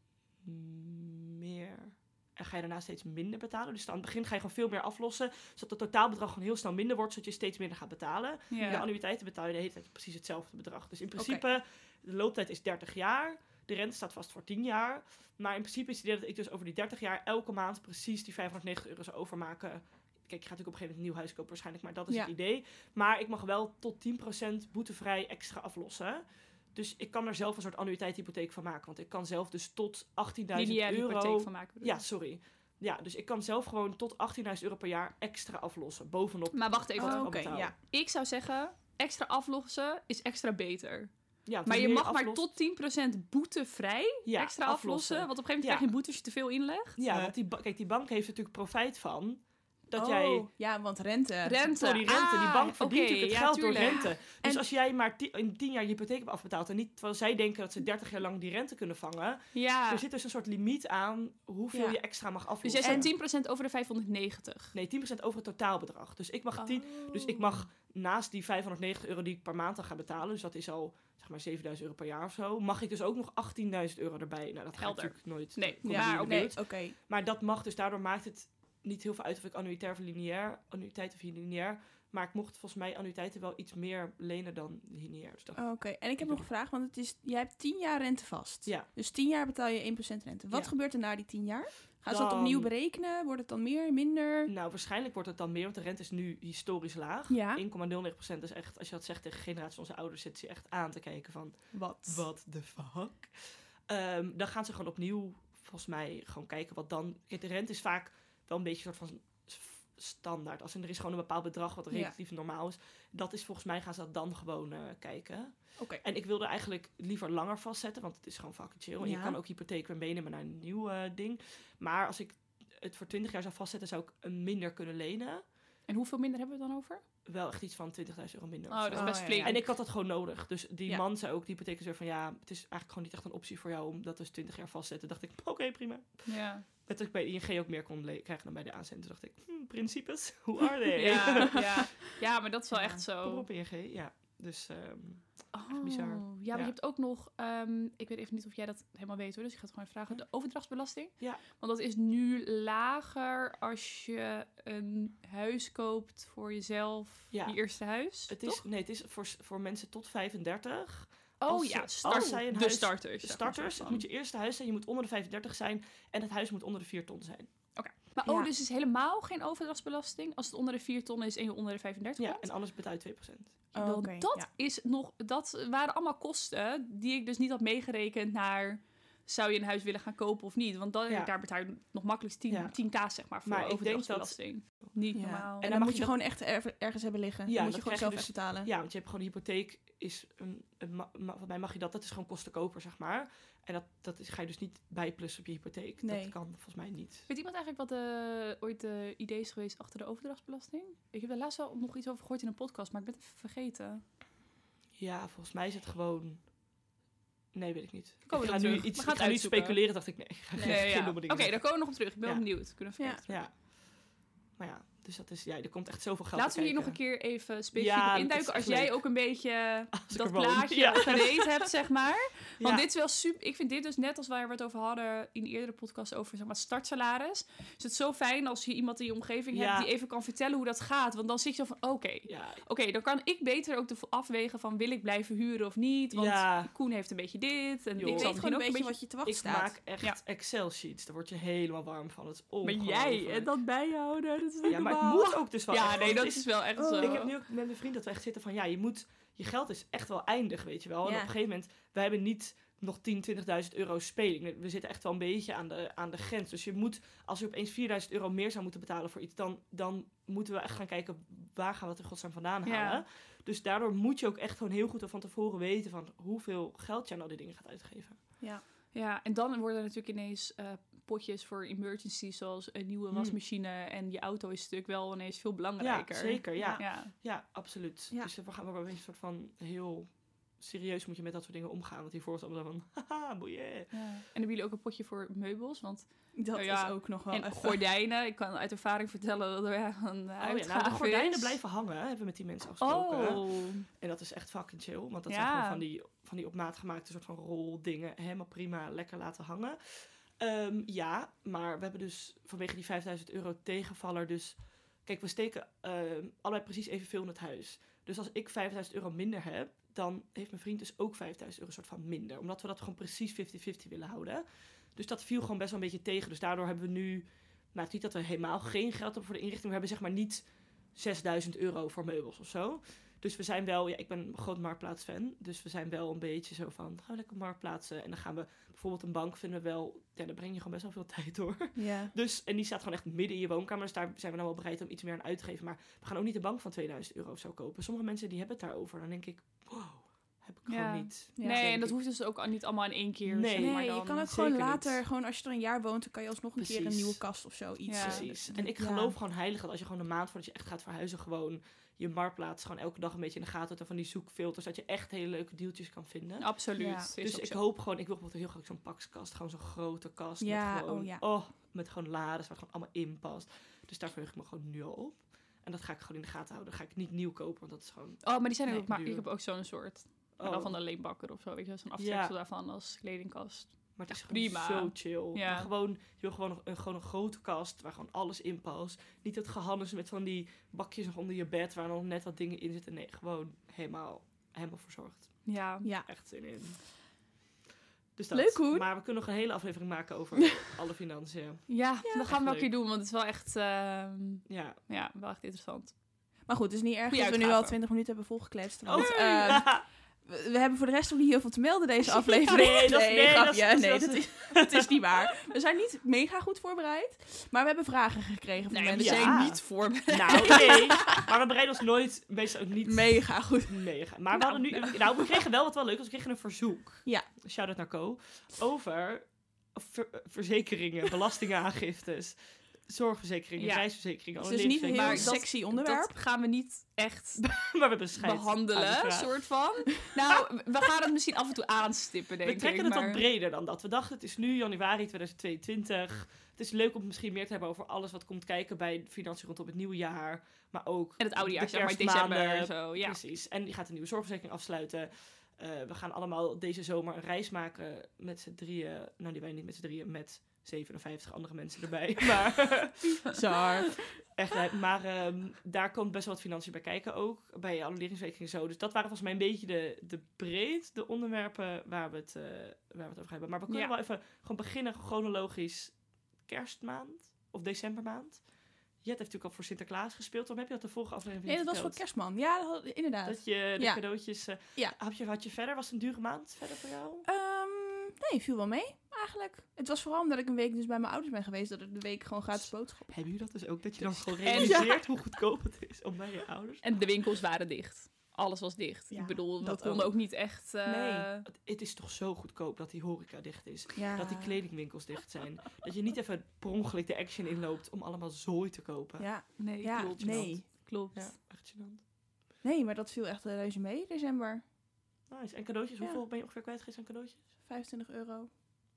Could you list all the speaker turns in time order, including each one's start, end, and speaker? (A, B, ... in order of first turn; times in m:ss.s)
0:00.4-0:37.7 A
0:08.5-0:08.9 B
0:08.6-0:08.9 C
0:11.2-0:11.4 C
0:30.6-0:32.1 B
0:36.5-0:47.0 B
0:37.0-0:37.8 C
0:41.5-0:42.6 A
0:44.2-0:46.0 A
0:47.0-0:50.5 A
0:47.1-0:47.4 C
0:49.9-0:51.7 C
0:51.4-0:54.1 B
0:51.7-1:03.1 A
0:59.5-1:00.0 B
1:01.7-1:02.2 C
1:02.6-1:04.8 B
1:02.8-1:03.1 C
1:04.7-1:26.5 A
1:06.6-1:07.4 B
1:14.8-1:16.5 B
1:15.8-1:17.0 C
1:25.6-1:34.5 C
1:32.1-1:32.7 A
1:34.5-2:05.5 A
1:37.3-1:37.6 C
1:41.7-1:42.3 C
1:51.9-1:52.2 C
1:55.8-1:56.0 C
1:59.0-1:59.4 C
2:05.9-2:07.0 B
2:07.2-2:21.9 A
2:08.7-2:09.7 B
2:08.9-2:09.7 C
2:16.3-2:16.7 B
2:21.0-2:23.5 B
2:22.8-2:23.0 C
2:23.0-2:26.8 A
2:25.5-2:38.6 B
2:31.2-2:31.4 A
2:37.3-2:47.8 A
2:41.4-2:44.0 B
2:47.8-2:52.5 B
2:48.2-2:48.5 C
2:52.2-2:53.7 A
2:53.7-2:54.5 C
2:53.8-3:05.7 B
3:01.1-3:01.4 A
3:02.5-3:06.2 A
3:05.1-3:08.7 C
3:07.5-3:17.3 A
3:16.0-3:16.4 C
3:17.3-3:24.0 B
3:25.0-3:26.5 A
3:27.5-3:41.7 A
3:28.3-3:33.4 B
3:30.6-3:30.9 C
3:33.0-3:33.2 C
3:36.3-3:59.0 B
3:42.6-3:42.9 A
3:49.5-3:49.9 A
3:52.3-3:52.6 A
3:56.1-3:56.8 A
3:58.0-3:58.4 A
3:58.1-3:59.8 C
3:59.2-4:03.5 A
4:02.6-4:07.3 B
4:04.7-4:28.4 A
4:06.8-4:07.3 C
4:11.0-4:11.3 C
4:22.7-4:23.0 B
4:28.9-4:37.1 B
4:33.1-4:33.4 A
4:35.8-4:44.1 A
4:36.6-4:37.4 C
4:43.9-4:51.6 B
4:46.4-4:47.8 C
4:50.4-5:42.0 A
4:52.8-4:53.9 B
4:55.3-4:55.8 B
5:31.8-5:32.1 C
5:40.7-5:44.3 B
5:41.4-5:41.7 C
5:43.2-5:45.0 A
5:43.6-5:49.2 C
5:46.6-6:09.7 A
5:47.9-5:48.4 B
5:56.4-5:57.6 B
5:56.8-5:57.1 C
6:00.4-6:01.4 C
6:08.2-6:15.7 B
6:10.4-6:10.8 A
6:12.0-6:12.4 A
6:14.0-6:27.0 A
6:25.4-6:25.9 B
6:25.8-6:26.1 C
6:28.2-6:32.7 A
6:28.3-6:28.9 C
6:31.7-6:36.5 B
6:32.0-6:32.3 C
6:34.5-6:34.8 A
6:36.4-6:49.6 C
6:37.1-6:37.8 B
6:38.9-6:39.7 B
6:38.9-6:39.8 A
6:42.5-6:44.9 A
6:42.5-6:42.9 B
6:48.7-6:50.9 B
6:48.9-7:05.4 A
6:50.4-6:50.8 C
6:52.8-6:55.4 C
6:57.0-6:57.3 C
7:03.6-7:03.9 B
7:04.4-7:06.2 C
7:04.8-7:13.2 B
7:07.4-7:10.1 A
7:12.4-7:33.4 A
7:21.2-7:23.2 B
7:33.3-7:34.2 C
7:34.1-7:52.1 A
7:43.7-7:43.9 B
7:51.4-7:55.0 C
7:53.3-7:57.2 A
7:57.2-8:05.2 C
8:02.5-8:07.3 A
8:04.4-8:05.0 B
8:06.8-8:11.5 B
8:09.1-8:11.3 C
8:11.4-8:19.5 A
8:14.0-8:14.8 C
8:19.2-8:20.7 C
8:19.6-8:21.4 B
8:20.2-8:22.0 A
8:22.6-8:24.6 C
8:25.3-8:27.5 A
8:27.6-8:28.5 C